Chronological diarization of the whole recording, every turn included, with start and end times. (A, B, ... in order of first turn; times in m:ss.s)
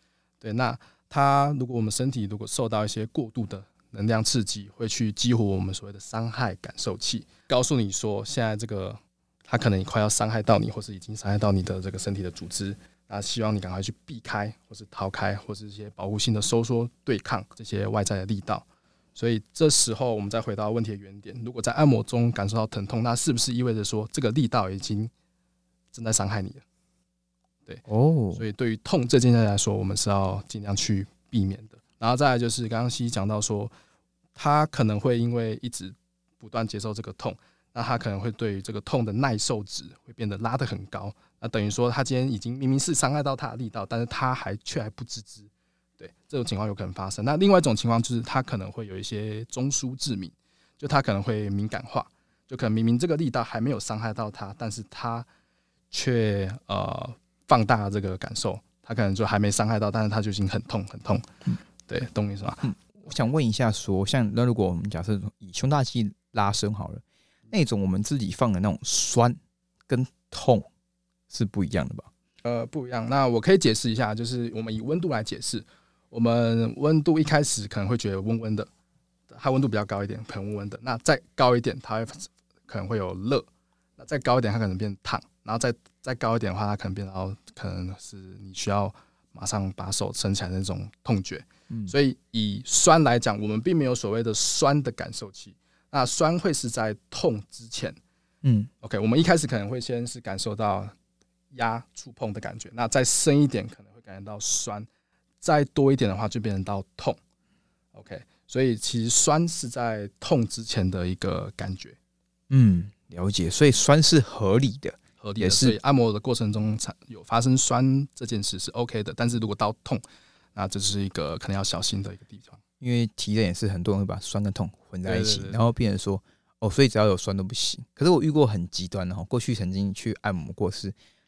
0:00.4-0:25.1 A
0:25.9-0:26.6 A
0:27.9-0:28.4 B
0:28.4-0:33.7 A
0:34.4-0:55.3 A
0:55.9-1:01.3 A
1:01.9-1:02.7 A
1:02.6-1:10.7 B
1:11.3-1:12.1 B
1:12.4-1:18.7 A
1:19.3-1:23.5 A
1:24.0-1:38.0 A
1:38.4-1:38.7 B
1:38.8-1:40.9 A
1:41.5-1:44.9 A
1:45.4-1:47.2 A
1:47.9-1:52.0 A
1:52.5-1:55.8 B
1:55.2-2:00.0 A
2:00.6-2:02.6 A
2:02.8-2:10.9 B
2:05.0-2:05.6 A